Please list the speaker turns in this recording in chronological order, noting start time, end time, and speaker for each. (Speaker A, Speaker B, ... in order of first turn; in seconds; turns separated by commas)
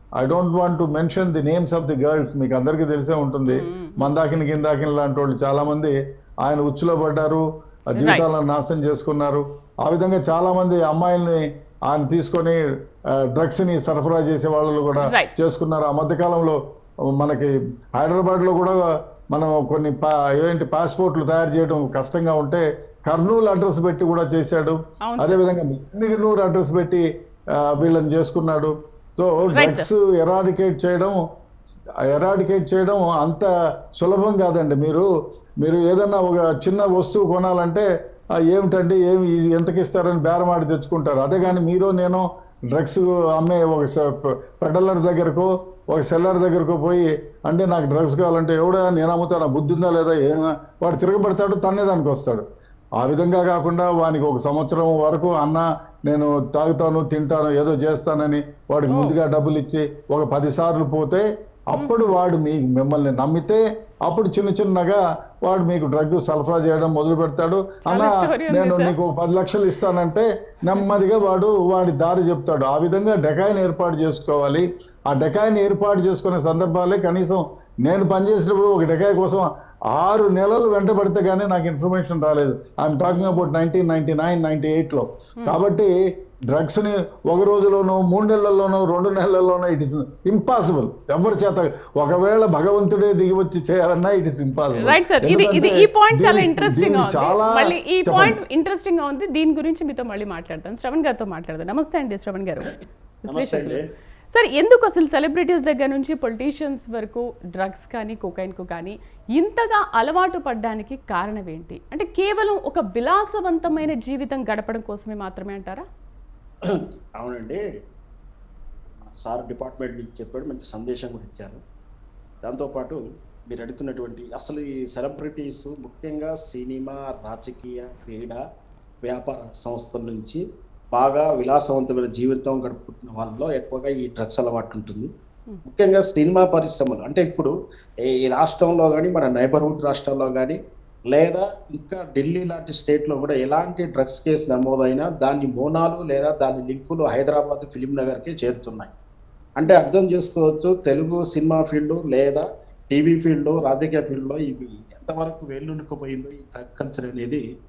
Speaker A: 0.2-5.9, Speaker B: 3.5-4.1, Speaker A: 6.4-7.4, Speaker A: 8.0-12.6, Speaker B: 8.0-8.2, Speaker A: 13.3-16.6, Speaker B: 15.0-15.3, Speaker A: 17.2-18.8, Speaker A: 19.3-27.0, Speaker B: 25.0-25.4, Speaker A: 27.7-31.2, Speaker B: 29.5-29.9, Speaker A: 32.1-33.5, Speaker A: 34.0-35.1, Speaker A: 35.6-37.9, Speaker A: 38.5-52.4, Speaker A: 53.0-85.9, Speaker B: 58.9-59.2, Speaker B: 61.7-62.1, Speaker B: 67.9-68.9, Speaker A: 86.5-98.3, Speaker B: 94.8-103.8, Speaker C: 103.3-103.8, Speaker B: 104.3-115.8, Speaker C: 116.6-117.6, Speaker C: 119.0-121.6, Speaker C: 122.4-128.4, Speaker C: 129.0-130.4, Speaker C: 130.9-135.1, Speaker C: 135.6-137.5, Speaker C: 138.1-140.6, Speaker C: 141.1-148.9, Speaker C: 149.6-157.4